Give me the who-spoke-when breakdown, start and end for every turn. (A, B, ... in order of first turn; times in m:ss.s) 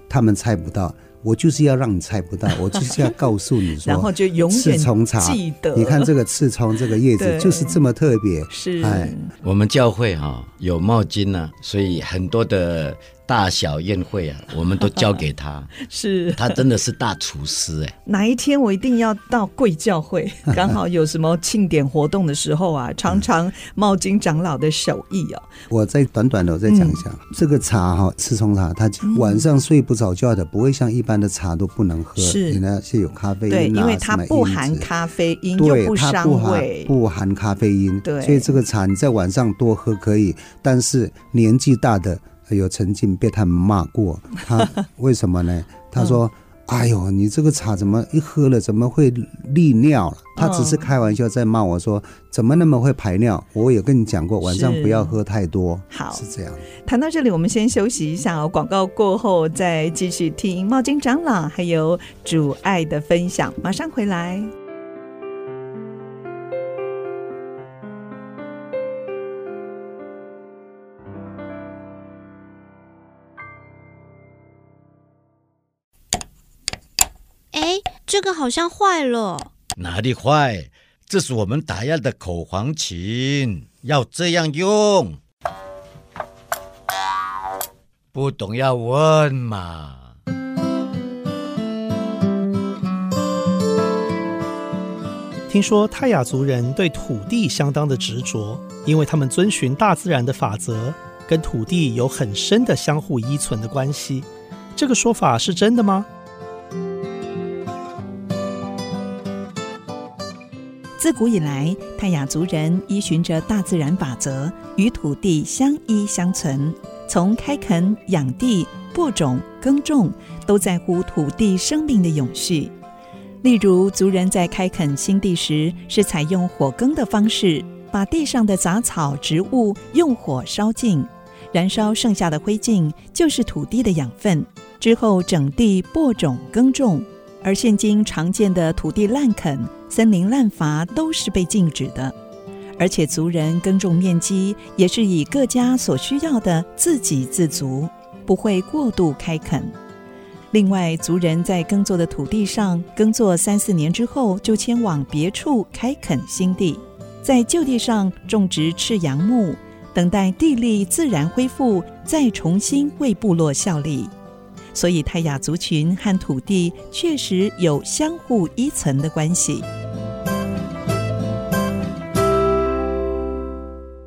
0:00.1-0:09.1 A
0:02.7-0:03.0 B
0:03.8-0:06.1 B
0:07.2-0:07.8 B
0:08.5-0:09.3 B
0:09.4-0:15.8 C
0:15.8-0:16.6 B
0:16.3-0:17.9 C
0:18.0-0:25.5 B
0:25.7-0:34.9 A
0:26.7-0:27.0 B
0:29.0-0:29.5 B
0:32.2-0:32.6 B
0:33.5-0:36.9 B
0:35.6-0:56.7 A
0:38.0-0:38.6 B
0:50.4-0:50.8 B
0:54.4-0:55.2 B
0:55.9-0:56.2 B
0:56.8-1:04.5 B
1:17.5-1:19.5 D
1:19.8-1:25.2 C
1:28.1-1:30.1 C
1:35.5-1:46.1 E
1:51.0-2:02.7 B
2:03.4-2:22.1 B
2:22.8-2:29.7 B
2:30.5-2:44.1 B
2:44.7-2:49.7 B